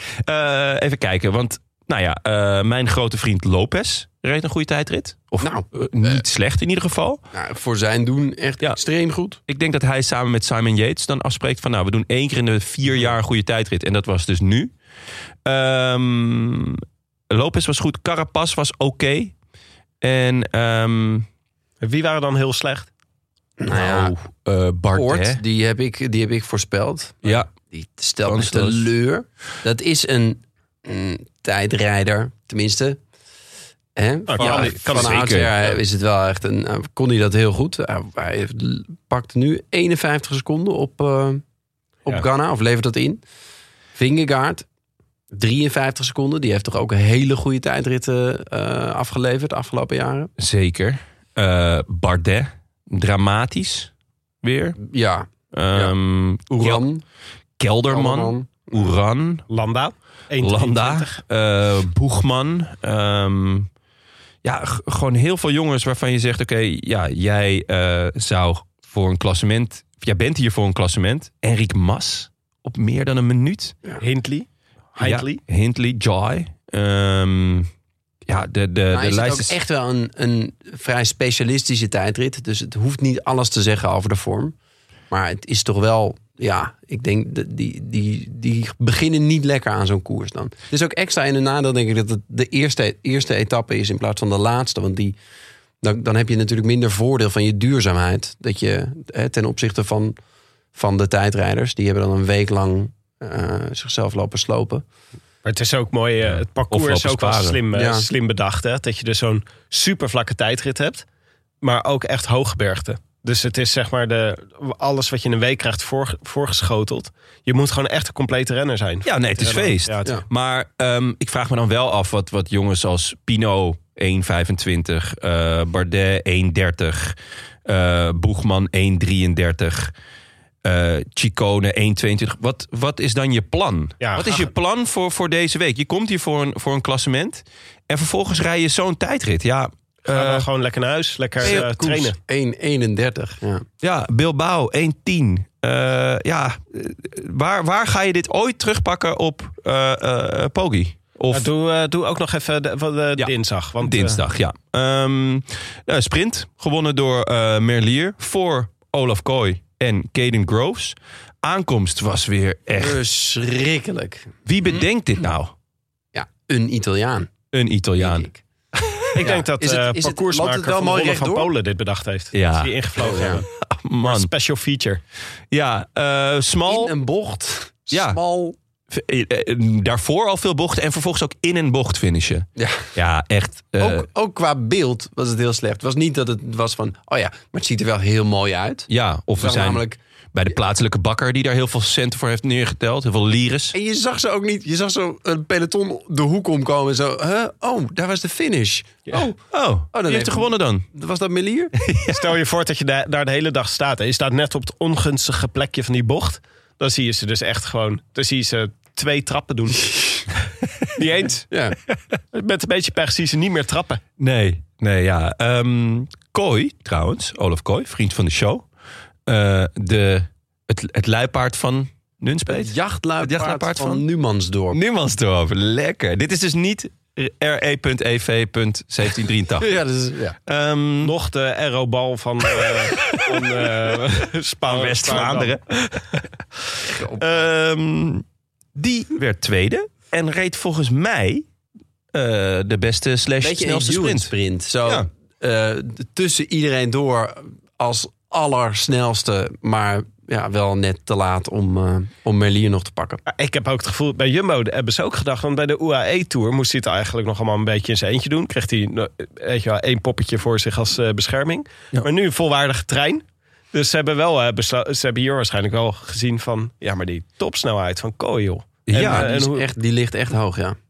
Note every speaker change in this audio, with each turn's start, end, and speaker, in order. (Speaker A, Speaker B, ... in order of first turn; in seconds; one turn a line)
Speaker A: 0.2-7.2
Speaker B: 5.4-6.2
Speaker B: 7.3-9.4
Speaker A: 9.5-14.7
Speaker A: 15.4-19.3
Speaker A: 20.0-21.2
Speaker C: 21.8-22.9
Speaker B: 23.6-24.1
Speaker A: 23.7-25.4
Speaker B: 24.9-33.0
Speaker A: 28.2-28.9
Speaker B: 34.0-41.4
Speaker C: 34.3-35.2
Speaker A: 34.4-35.7
Speaker B: 42.0-43.2
Speaker B: 44.0-44.6
Speaker B: 45.3-50.3
Speaker A: 50.4-53.9
Speaker A: 54.4-54.8
Speaker B: 54.8-55.9
Speaker A: 55.5-56.8
Speaker B: 56.5-57.0
Speaker A: 57.6-59.5
Speaker B: 57.9-58.9
Speaker C: 59.5-61.2
Speaker A: 60.4-63.7
Speaker A: 64.4-73.8
Speaker C: 74.0-75.4
Speaker A: 75.0-77.7
Speaker A: 78.3-79.5
Speaker B: 78.9-84.5
Speaker B: 85.1-95.2
Speaker B: 95.8-100.2
Speaker B: 100.7-104.8
Speaker C: 105.4-111.0
Speaker A: 106.3-107.6
Speaker B: 107.7-108.1
Speaker C: 111.6-120.1
Speaker A: 119.0-129.9
Speaker A: 130.6-140.4
Speaker C: 134.0-134.5
Speaker C: 140.1-142.1
Speaker B: 141.4-143.6
Speaker A: 143.8-151.5
Speaker C: 151.3-154.2
Speaker A: 153.2-163.0
Speaker B: 162.7-164.3
Speaker A: 164.4-165.5
Speaker B: 166.1-167.3
Speaker A: 167.5-169.3
Speaker B: 168.0-168.4
Speaker C: 169.2-173.5
Speaker B: 169.2-171.5
Speaker A: 172.3-174.3
Speaker B: 172.9-173.4
Speaker C: 174.0-175.0
Speaker A: 175.5-176.9
Speaker B: 176.7-178.6
Speaker A: 177.9-178.2
Speaker A: 178.9-184.1
Speaker B: 182.6-182.9
Speaker B: 183.8-190.0
Speaker A: 188.9-189.8
Speaker A: 190.3-193.7
Speaker B: 193.7-199.4
Speaker A: 199.5-200.8
Speaker B: 199.9-201.7
Speaker A: 201.8-202.4
Speaker C: 202.1-210.2
Speaker C: 210.9-211.5
Speaker B: 211.5-211.8
Speaker C: 212.3-214.0
Speaker A: 214.2-218.6
Speaker A: 219.3-224.0
Speaker B: 222.5-224.8
Speaker A: 224.7-229.7
Speaker B: 229.6-230.3
Speaker A: 230.5-231.1
Speaker C: 231.0-236.2
Speaker A: 234.6-235.6
Speaker B: 236.9-237.4
Speaker A: 237.2-238.2
Speaker A: 238.8-241.4
Speaker A: 242.1-244.3
Speaker B: 243.4-253.2
Speaker C: 253.3-269.6
Speaker A: 268.9-269.3
Speaker B: 268.9-270.8